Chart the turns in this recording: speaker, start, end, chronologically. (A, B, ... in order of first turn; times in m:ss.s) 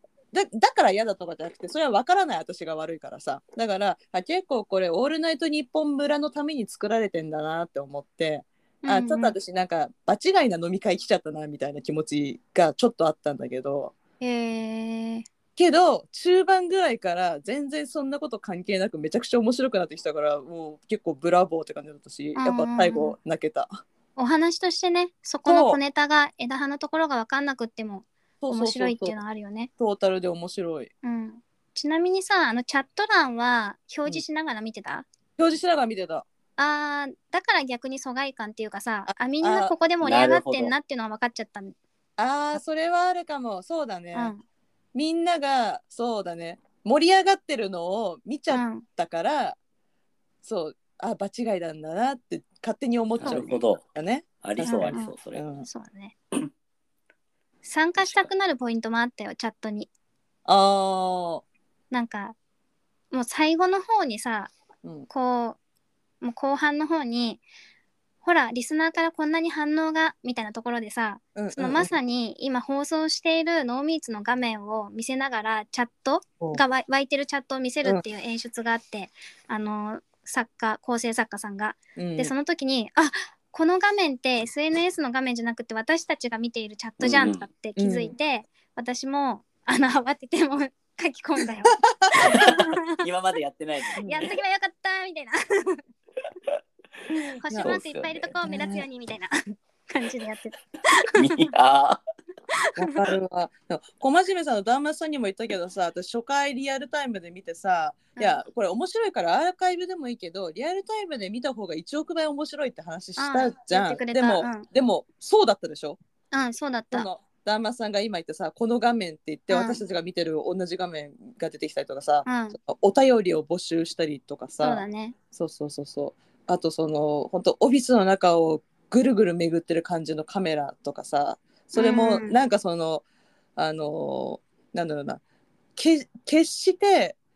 0:00.3-0:13.9 A
0:08.8-0:09.4 B
0:14.2-0:15.3 B
0:15.6-0:23.8 A
0:22.4-0:23.2 B
0:24.2-0:29.7 B
0:25.5-0:25.8 A
0:28.4-0:29.2 A
0:29.8-0:30.9 A
0:31.0-0:35.1 B
0:35.4-0:36.2 A
0:36.6-0:41.8 B
0:39.1-0:39.7 A
0:40.0-0:40.7 C
0:42.2-0:44.3 A
0:44.1-0:44.4 B
0:44.9-0:49.6 A
0:48.5-0:48.8 B
0:50.4-0:55.7 A
0:53.2-0:53.8 C
0:54.4-0:55.4 C
0:54.7-0:55.1 B
0:55.7-0:56.2 B
0:57.6-0:59.9 B
0:58.0-0:58.3 C
1:00.5-1:01.4 A
1:01.9-1:02.4 B
1:03.1-1:04.5 B
1:04.8-1:05.1 A
1:05.1-1:05.6 B
1:06.2-1:07.4 B
1:08.2-1:33.0 B
1:11.4-1:11.9 A
1:22.0-1:22.3 A
1:27.0-1:27.5 C
1:27.8-1:28.1 A
1:31.8-1:32.5 A
1:32.3-1:34.4 C
1:34.0-1:34.3 A
1:34.0-1:35.8 B
1:37.1-1:37.8 A
1:37.4-1:41.5 B
1:37.6-1:38.3 C
1:38.4-1:38.8 A
1:41.2-1:42.0 C
1:42.5-1:43.0 B
1:42.8-1:56.0 A
1:53.2-1:54.7 B
1:56.3-1:57.1 B
1:56.9-2:13.0 A
1:59.5-1:59.8 B
2:02.3-2:02.6 B
2:04.6-2:05.2 B
2:11.8-2:12.3 B
2:13.6-2:15.2 A
2:15.8-2:17.2 A